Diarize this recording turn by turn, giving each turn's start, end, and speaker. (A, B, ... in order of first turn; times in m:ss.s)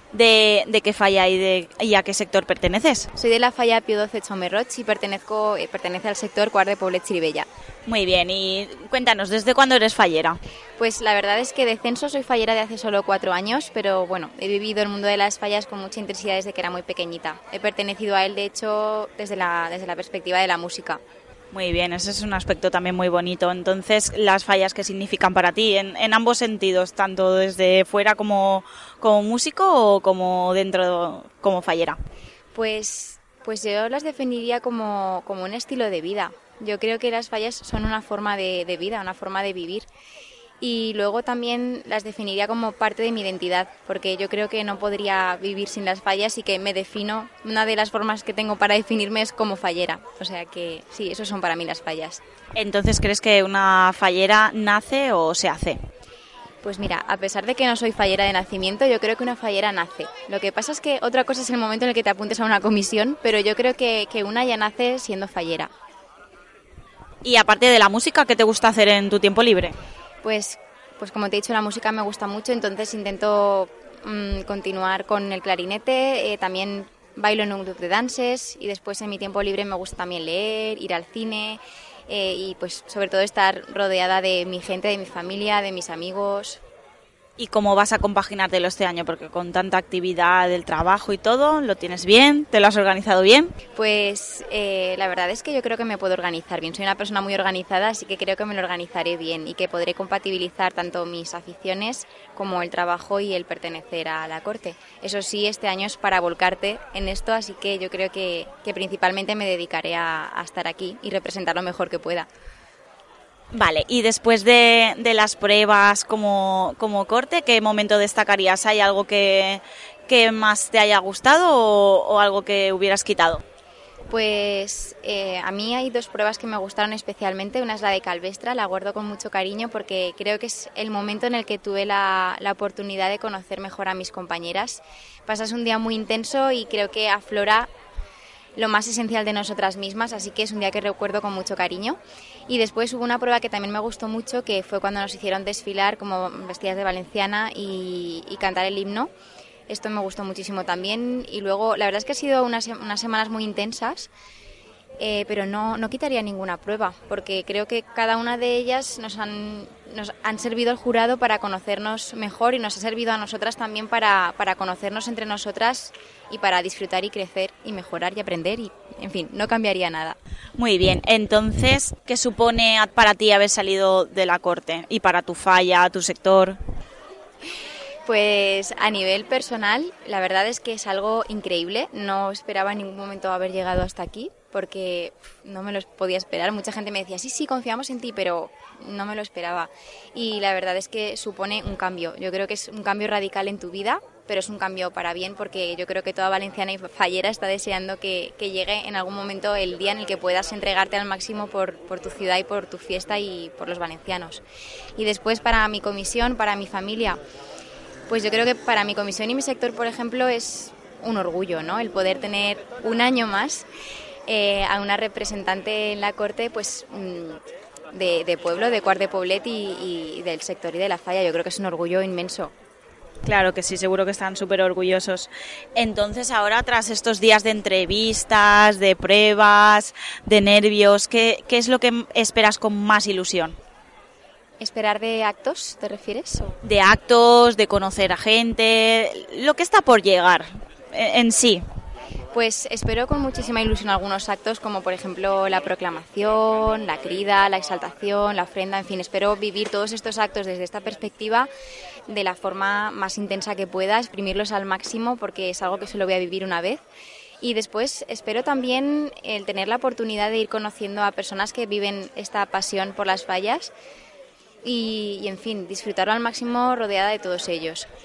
0:00.1-0:03.1 A
0:03.2-0:07.5 B
0:07.9-0:10.4 A
0:10.8-0:21.0 B
0:21.5-0:32.0 A
0:32.6-0:39.9 B
0:40.6-0:52.2 B
0:52.6-0:55.8 A
0:56.6-1:05.7 B
1:07.2-1:09.7 A
1:10.2-1:26.6 B
1:27.4-1:33.6 A
1:33.8-1:52.3 B
1:53.5-2:03.4 A
2:04.1-2:17.7 B
2:18.6-2:29.1 B
2:29.7-2:34.1 B
2:35.0-2:50.2 B
2:50.6-2:56.6 A
2:58.1-3:24.4 B
3:25.0-3:27.2 B
3:28.1-3:33.7 B
3:34.3-3:37.4 B
3:37.9-3:42.5 B
3:43.2-3:53.6 A
3:54.6-3:56.6 B
3:56.6-4:01.6 A
4:02.3-4:11.5 B
4:12.1-4:16.8 B
4:17.4-4:23.7 B
4:24.6-4:27.9 B